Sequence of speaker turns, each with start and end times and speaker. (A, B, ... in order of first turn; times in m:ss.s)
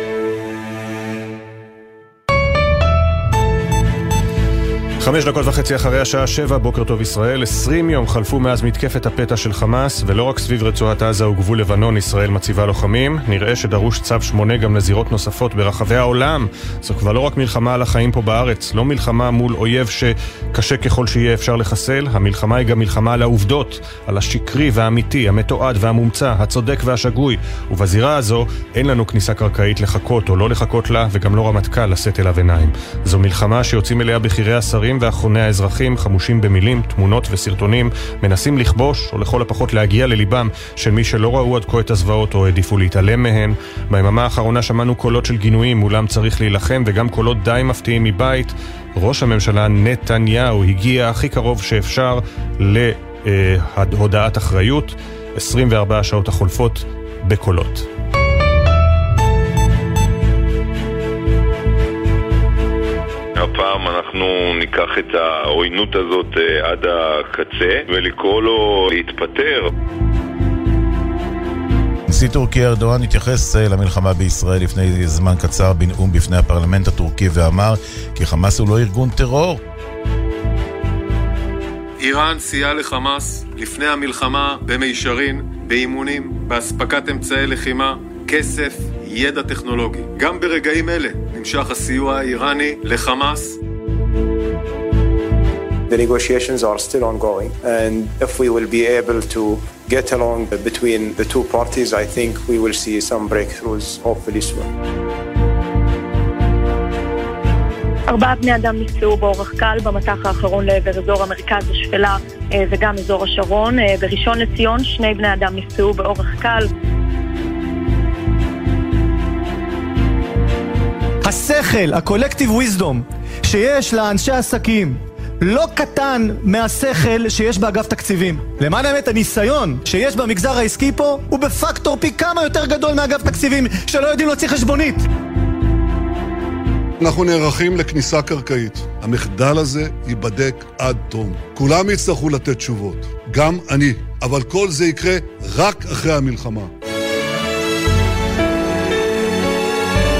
0:05.0-0:57.9 A
1:03.4-1:09.7 B
1:12.1-1:19.6 C
1:22.0-1:33.5 D
1:35.9-1:44.7 E
1:48.1-1:56.7 F
2:01.2-2:15.1 G
2:17.0-2:26.7 H